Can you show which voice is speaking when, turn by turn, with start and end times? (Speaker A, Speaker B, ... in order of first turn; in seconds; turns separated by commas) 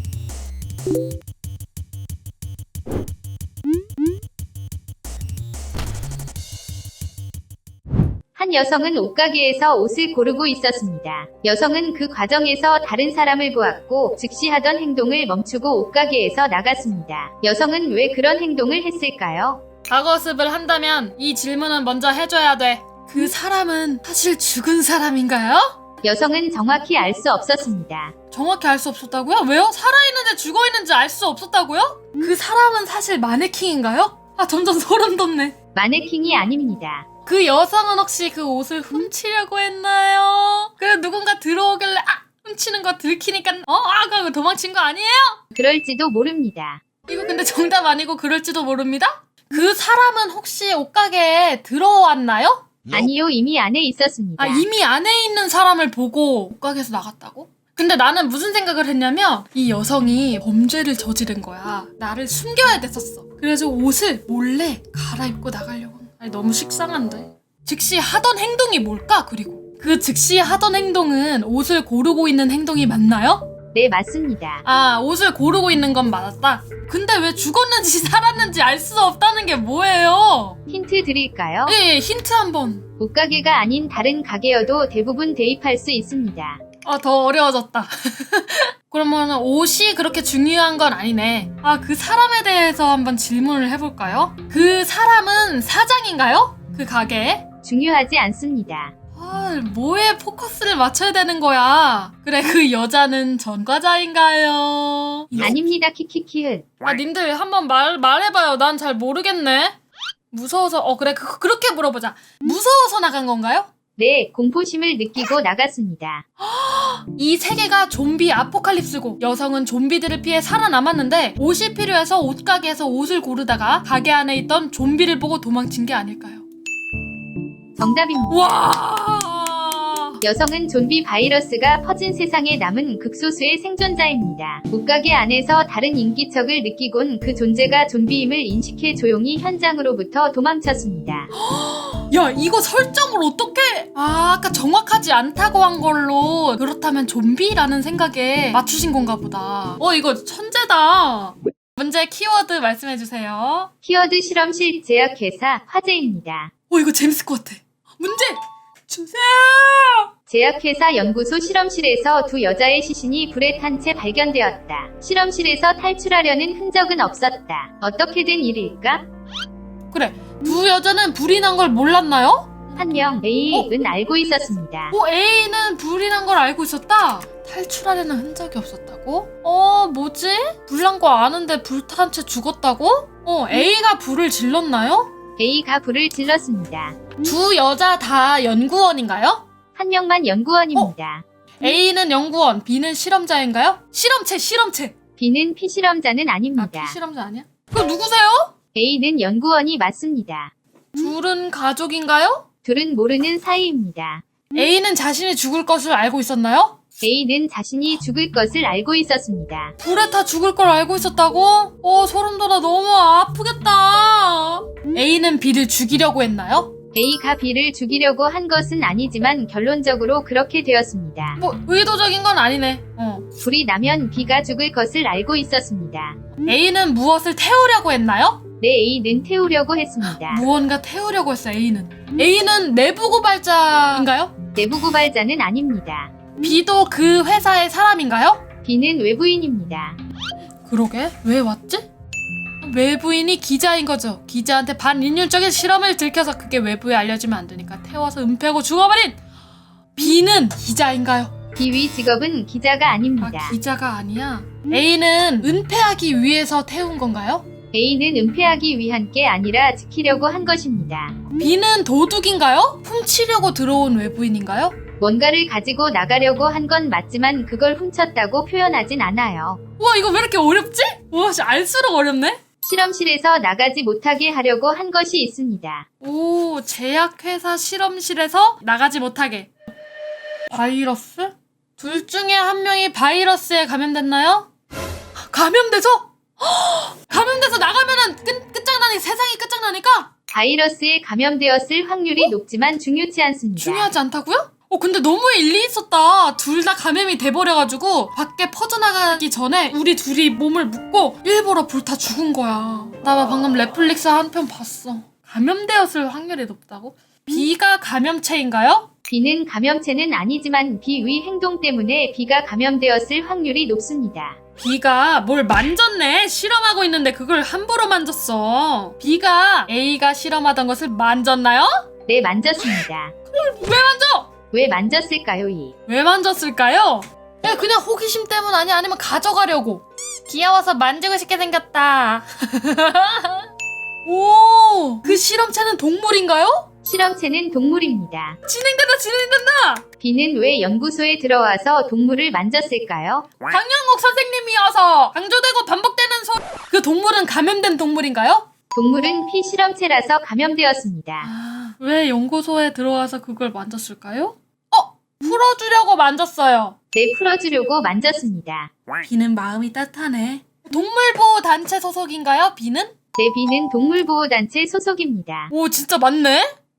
Speaker A: 8.3-19.6, Speaker B: 19.9-25.8, Speaker A: 26.0-28.1, Speaker B: 28.3-35.6, Speaker A: 35.8-37.1, Speaker B: 37.3-45.4, Speaker A: 45.5-46.8, Speaker B: 47.1-52.7, Speaker A: 52.9-54.7, Speaker B: 54.4-73.5, Speaker A: 73.7-74.7, Speaker B: 74.7-80.6, Speaker A: 80.7-81.8, Speaker B: 81.7-82.9, Speaker A: 83.0-86.6, Speaker B: 86.8-97.5, Speaker A: 97.6-98.9, Speaker B: 99.2-105.4, Speaker A: 105.4-106.7, Speaker B: 106.8-109.8, Speaker B: 110.3-113.7, Speaker A: 114.0-116.3, Speaker B: 116.4-126.4, Speaker A: 127.8-128.5, Speaker B: 128.3-130.2, Speaker A: 130.2-141.3, Speaker B: 141.3-153.7, Speaker A: 153.8-156.5, Speaker B: 156.7-160.1, Speaker A: 160.3-169.1, Speaker B: 169.9-172.8, Speaker A: 172.8-175.0, Speaker B: 174.9-185.1, Speaker A: 185.4-187.0, Speaker B: 187.2-189.4, Speaker A: 189.8-191.2, Speaker B: 191.6-195.0, Speaker A: 195.2-197.0, Speaker B: 196.6-198.5, Speaker A: 198.8-200.5, Speaker B: 200.9-202.4, Speaker A: 202.7-204.2, Speaker B: 204.5-206.8, Speaker A: 207.0-209.8, Speaker B: 209.8-216.7, Speaker A: 216.9-221.4, Speaker B: 221.4-223.2, Speaker A: 223.4-226.2, Speaker B: 226.4-228.4, Speaker A: 228.6-230.4, Speaker B: 230.2-234.3, Speaker A: 234.6-236.1, Speaker B: 236.4-238.4, Speaker A: 238.6-240.0, Speaker B: 240.7-241.9, Speaker B: 242.6-249.2, Speaker B: 249.9-251.3, Speaker A: 251.6-253.6, Speaker B: 253.2-257.4, Speaker A: 257.7-261.2, Speaker B: 261.4-264.8, Speaker A: 265.0-269.6, Speaker B: 269.8-272.4, Speaker A: 272.6-275.9, Speaker B: 276.0-279.5, Speaker B: 280.5-284.5, Speaker B: 285.2-290.1, Speaker A: 290.3-293.9, Speaker B: 293.6-308.9, Speaker A: 309.1-314.4, Speaker B: 314.6-321.8, Speaker A: 322.1-323.1, Speaker B: 322.8-324.3, Speaker A: 324.5-325.8, Speaker B: 325.9-333.5, Speaker B: 334.1-336.7, Speaker A: 336.9-338.4, Speaker B: 338.4-339.9, Speaker A: 340.0-343.3, Speaker B: 343.5-348.5, Speaker A: 348.7-351.3, Speaker B: 351.2-356.8, Speaker A: 356.9-358.7, Speaker B: 359.0-362.9, Speaker A: 363.2-365.5, Speaker B: 365.5-366.5